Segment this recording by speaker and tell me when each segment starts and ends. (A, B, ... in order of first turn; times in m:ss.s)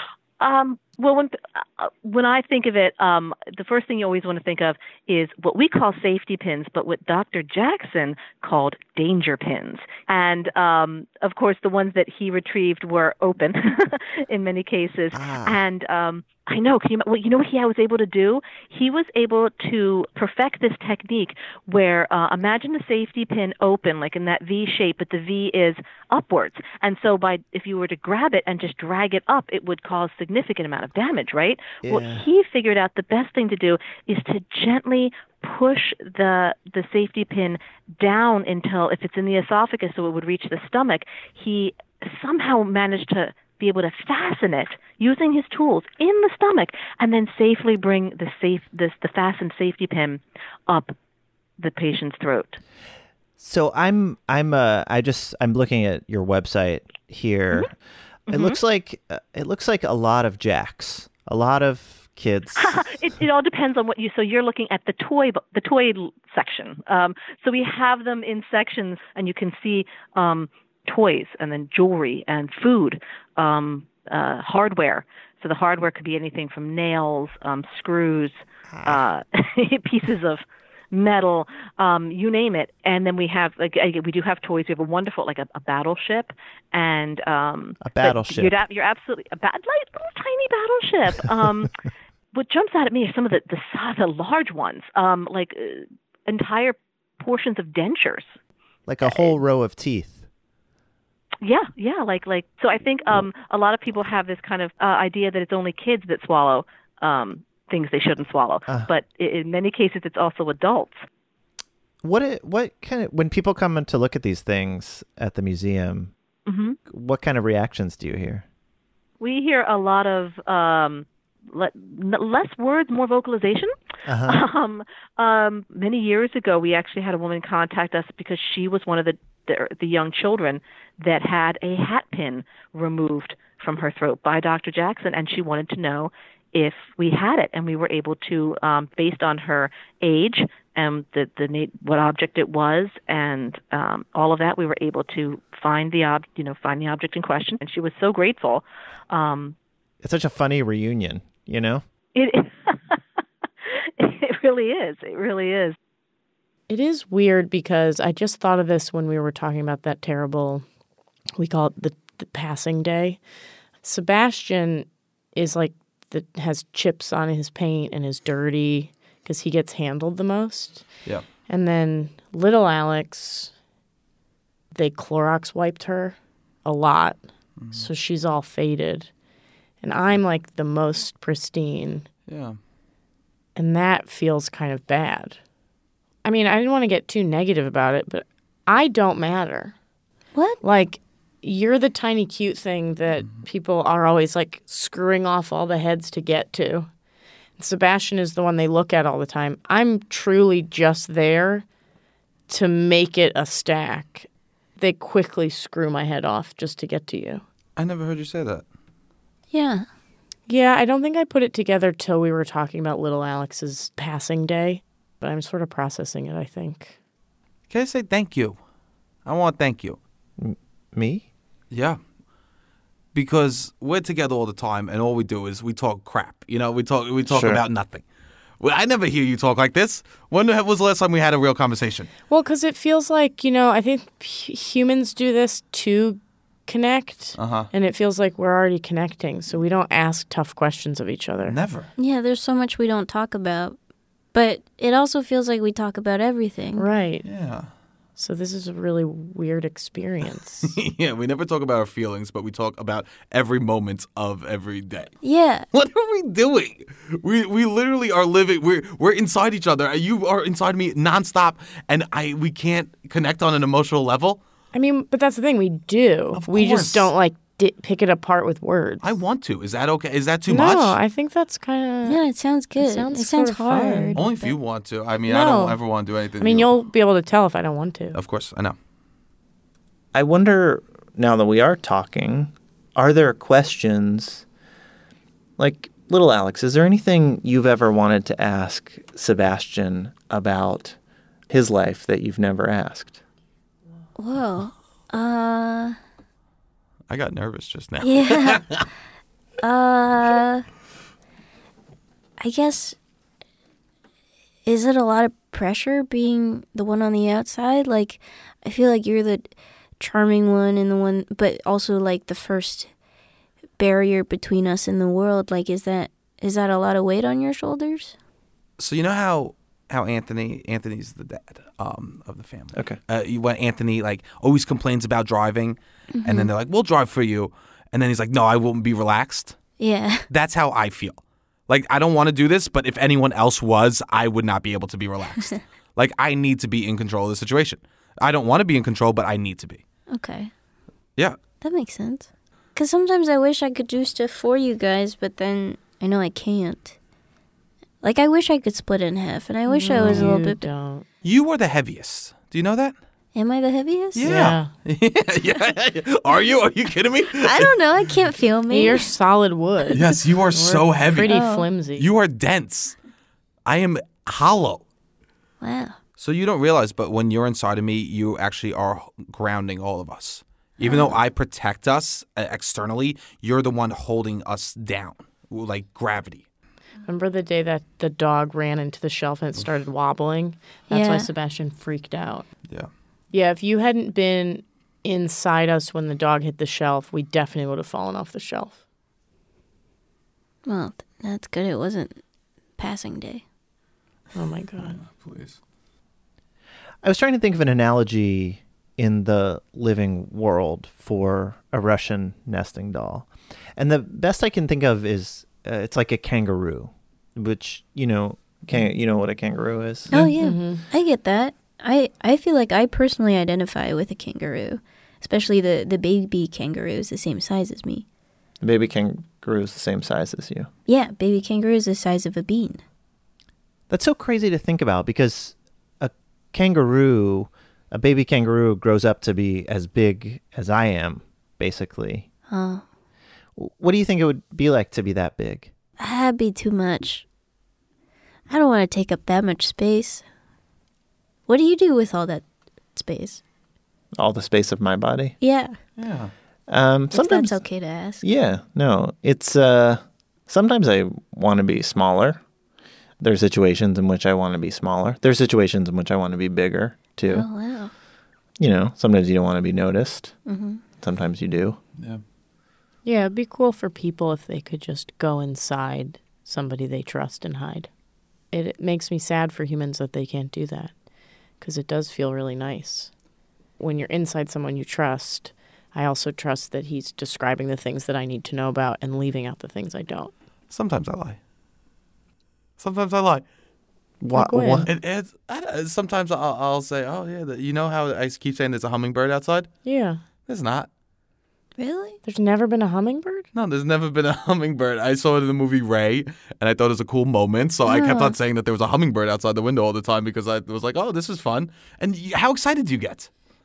0:00.4-0:50.9 A
0:15.1-0:15.6 B
0:31.8-0:32.3 B
0:51.6-0:52.6 A
0:53.4-0:57.7 B
0:58.3-1:02.9 B
0:58.3-0:58.6 A
1:02.6-1:31.7 A
1:18.7-1:19.0 B
1:27.8-1:28.5 B
1:32.3-1:38.3 A
1:38.9-1:40.3 B
1:39.0-1:39.3 A
1:41.4-1:51.0 A
1:52.0-1:56.1 B
1:56.4-1:56.8 A
1:56.9-1:58.4 B
1:59.2-2:03.7 A
2:04.0-2:04.4 B
2:04.2-2:29.6 A
2:30.0-2:31.8 B
2:32.1-2:33.0 A
2:33.7-2:35.8 A
2:36.7-2:40.6 C
2:41.4-2:43.2 C
2:43.8-2:50.9 C
2:51.5-2:53.5 C
2:54.7-2:59.1 C
2:57.6-2:57.9 D
2:59.8-3:02.0 C
3:02.3-3:02.6 D
3:03.6-3:05.4 C
3:06.2-3:09.7 C
3:10.6-3:16.9 C
3:17.6-3:21.6 C
3:22.5-3:27.4 C
3:27.8-3:28.6 D
3:29.5-3:29.9 E
3:30.5-3:37.0 C
3:37.7-3:38.6 D
3:39.2-3:40.0 D
3:40.4-3:41.3 B
3:41.7-3:42.0 D
3:43.1-3:48.0 D
3:47.3-3:47.6 B
3:48.6-3:52.1 D
3:52.3-4:01.6 C
3:57.4-3:57.7 D
4:01.4-4:01.9 D
4:02.0-4:03.8 E
4:04.3-4:06.8 E
4:06.8-4:07.2 C
4:07.2-4:07.7 D
4:08.2-4:10.7 C
4:10.6-4:15.1 D
4:15.2-4:15.6 E
4:15.7-4:24.4 D
4:24.7-4:29.1 C
4:26.3-4:27.1 D
4:29.0-4:31.0 D
4:30.5-4:32.2 C
4:32.0-4:34.5 E
4:32.8-4:34.2 C
4:34.1-4:36.7 D
4:35.3-4:35.8 C
4:36.4-4:38.2 C
4:38.1-4:38.8 D
4:40.1-4:44.4 B
4:45.6-4:51.0 B
4:51.5-4:53.2 B
4:54.2-4:56.0 E
4:57.1-4:58.8 D
4:58.0-4:58.7 E
4:59.6-5:00.6 E
5:02.4-5:03.0 E
5:04.6-5:12.9 E
5:13.8-5:18.1 E
5:18.8-5:29.6 D
5:22.7-5:23.0 B
5:26.1-5:26.5 E
5:29.8-5:30.3 E
5:30.3-5:39.8 D
5:40.1-5:40.5 E
5:41.2-5:41.4 D
5:41.6-5:47.0 E
5:48.0-5:50.6 E
5:49.6-5:51.0 C
5:49.9-5:50.3 D
5:51.2-5:53.0 D
5:53.3-5:54.5 E
5:54.1-5:57.7 D
5:54.2-5:54.7 C
5:57.4-5:59.1 E
5:58.7-6:02.1 C
5:59.9-6:01.3 D
6:01.1-6:01.7 E
6:01.9-6:03.0 D
6:03.6-6:04.8 D
6:05.6-6:06.0 E
6:06.2-6:16.4 D
6:10.8-6:11.2 E
6:17.0-6:22.4 C
6:20.9-6:21.3 E
6:23.3-6:28.8 C
6:30.6-6:32.2 E
6:32.8-6:33.4 E
6:34.3-6:35.0 C
6:34.8-6:35.6 D
6:37.0-6:50.2 B
6:50.1-6:58.0 E
6:50.4-6:50.8 C
6:58.6-7:00.7 B
7:00.9-7:02.8 E
7:03.9-7:12.3 B
7:12.5-7:12.8 E
7:13.6-7:15.7 B
7:16.0-7:17.2 E
7:18.5-7:20.2 E
7:21.5-7:23.4 E
7:24.2-7:25.3 B
7:25.4-7:25.8 E
7:26.0-7:26.3 D
7:26.7-7:27.6 B
7:27.1-7:28.2 E
7:28.2-7:32.4 B
7:33.2-7:37.5 B
7:37.3-7:37.9 E
7:38.6-7:40.3 B
7:40.4-7:40.8 E
7:41.0-7:41.8 B
7:43.0-7:47.9 C
7:48.5-7:50.9 C
7:51.6-7:53.1 C
7:53.8-8:00.3 C
8:00.7-8:01.4 D
8:02.8-8:03.4 D
8:04.2-8:04.9 B
8:04.3-8:04.8 C
8:04.8-8:09.7 D
8:09.8-8:10.2 C
8:10.4-8:10.9 D
8:11.8-8:12.2 E
8:12.2-8:13.5 C
8:13.5-8:23.3 D
8:17.8-8:18.4 E